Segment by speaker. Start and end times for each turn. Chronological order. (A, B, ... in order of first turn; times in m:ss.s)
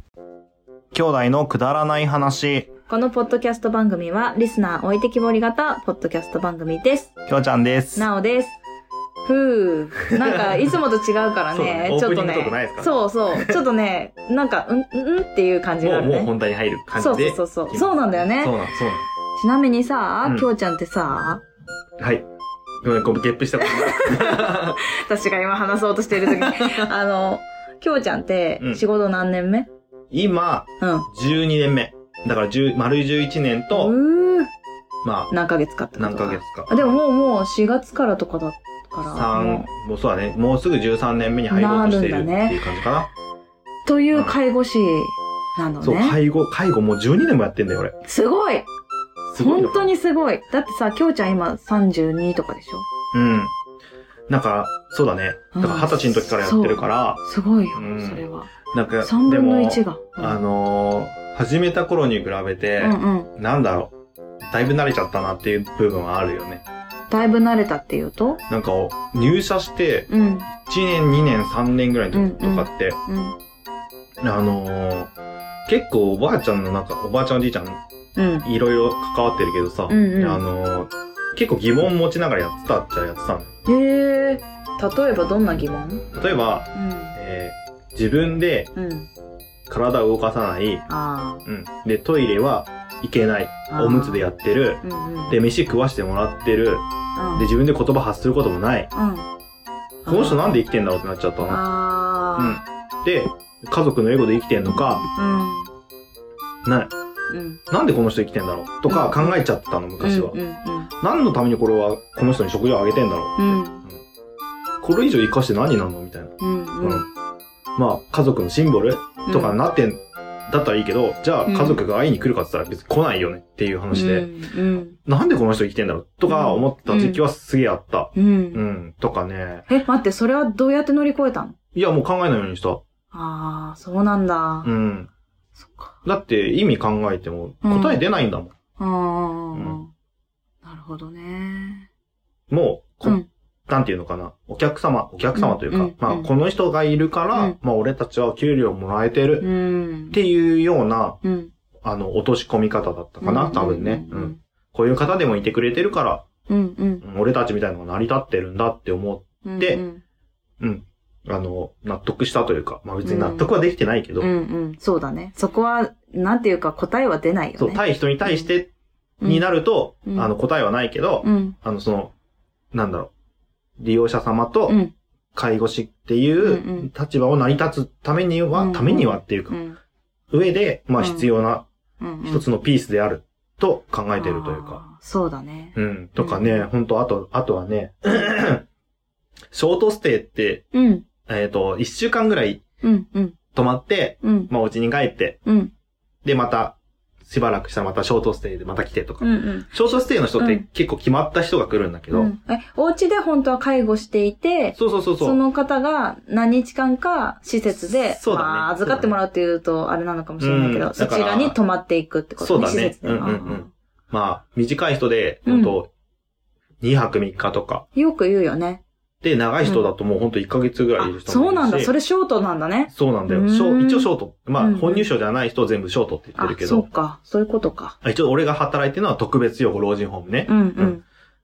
0:00.9-0:02.7 A
0:02.9-0:07.1 B
0:07.3-0:08.1 A
0:08.0-0:08.6 B
0:09.2-0:16.3 B
0:10.2-0:10.7 A
0:11.5-0:13.6 A
0:15.8-0:19.1 A
0:17.0-0:18.6 B
0:19.4-0:21.4 B
0:22.0-0:22.3 A
0:22.8-0:24.8 A
0:23.6-0:29.7 B
0:26.2-0:26.8 A
0:30.1-0:33.9 A
0:30.8-0:31.1 B
0:33.7-0:34.5 B
0:35.0-0:35.3 A
0:35.3-0:39.7 B
0:36.0-0:37.0 A
0:39.1-0:43.1 A
0:41.5-0:42.6 B
0:43.9-0:46.2 B
0:45.8-0:48.0 A
0:48.1-0:48.7 B
0:49.3-0:49.9 A
0:49.4-0:52.9 B
0:53.1-0:53.5 A
0:54.3-0:57.2 A
0:55.5-0:58.5 B
0:57.8-1:03.9 A
0:59.0-1:00.4 B
1:02.8-1:03.3 B
1:04.5-1:06.6 A
1:07.1-1:08.4 B
1:08.5-1:13.0 A
1:10.1-1:10.5 B
1:12.1-1:13.4 B
1:14.2-1:15.1 A
1:15.7-1:17.8 A
1:18.2-1:18.5 B
1:18.4-1:23.5 A
1:19.9-1:20.4 B
1:23.7-1:26.0 B
1:26.1-1:28.7 A
1:26.7-1:27.2 B
1:28.8-1:29.1 B
1:29.7-1:30.8 A
1:30.9-1:31.4 B
1:31.4-1:38.9 A
1:33.7-1:34.2 B
1:34.8-1:35.4 B
1:37.2-1:37.5 B
1:38.9-1:39.3 B
1:40.1-1:40.6 B
1:40.1-1:41.6 A
1:41.5-1:42.6 B
1:42.4-1:45.0 A
1:45.2-1:45.7 B
1:46.6-1:46.9 A
1:47.3-1:47.6 B
1:47.7-1:50.4 A
1:48.9-1:49.4 B
1:50.0-1:50.9 B
1:51.0-1:54.0 A
1:53.4-1:53.8 B
1:54.8-1:57.1 A
1:56.4-1:57.0 B
1:57.8-2:04.3 A
1:59.3-1:59.6 B
2:01.5-2:01.8 B
2:03.9-2:05.0 B
2:05.1-2:09.7 A
2:06.3-2:07.2 B
2:08.2-2:08.6 B
2:09.7-2:11.6 B
2:11.7-2:12.8 A
2:13.1-2:14.7 B
2:14.6-2:15.1 A
2:15.6-2:16.0 B
2:16.0-2:18.5 A
2:17.6-2:18.0 B
2:18.8-2:19.9 B
2:19.6-2:19.8 A
2:20.6-2:21.9 B
2:22.5-2:29.5 A
2:25.4-2:26.3 B
2:29.4-2:30.2 B
2:30.1-2:31.2 A
2:31.2-2:31.5 B
2:31.8-2:36.3 A
2:33.2-2:34.4 B
2:36.5-2:37.0 B
2:37.0-2:39.8 A
2:39.4-2:40.0 B
2:40.6-2:44.3 A
2:43.0-2:43.5 B
2:44.2-2:48.5 B
2:47.6-2:48.7 A
2:49.2-2:49.5 B
2:49.2-2:52.1 A
2:51.2-2:51.6 B
2:52.7-2:53.1 A
2:53.8-2:54.8 A
2:54.7-2:54.9 B
2:55.4-2:59.6 A
2:56.4-2:56.9 B
2:58.6-2:59.8 B
3:00.3-3:01.7 A
3:01.0-3:01.3 B
3:02.0-3:02.4 B
3:02.2-3:04.8 A
3:04.2-3:06.7 B
3:05.8-3:08.7 A
3:09.5-3:10.7 A
3:10.7-3:11.1 B
3:11.3-3:12.6 A
3:12.8-3:13.4 B
3:13.5-3:15.4 A
3:14.2-3:14.5 B
3:15.4-3:15.7 B
3:16.2-3:22.3 A
3:19.2-3:20.6 B
3:22.1-3:33.7 B
3:24.8-3:25.4 A
3:27.7-3:29.2 A
3:30.4-3:31.6 A
3:32.4-3:35.9 A
3:35.5-3:35.8 B
3:36.8-3:37.8 A
3:37.9-3:38.8 B
3:39.2-3:41.9 A
3:39.6-3:39.9 B
3:41.0-3:45.1 B
3:42.9-3:46.9 A
3:46.4-3:48.0 B
3:48.0-3:51.0 A
3:50.5-3:51.0 B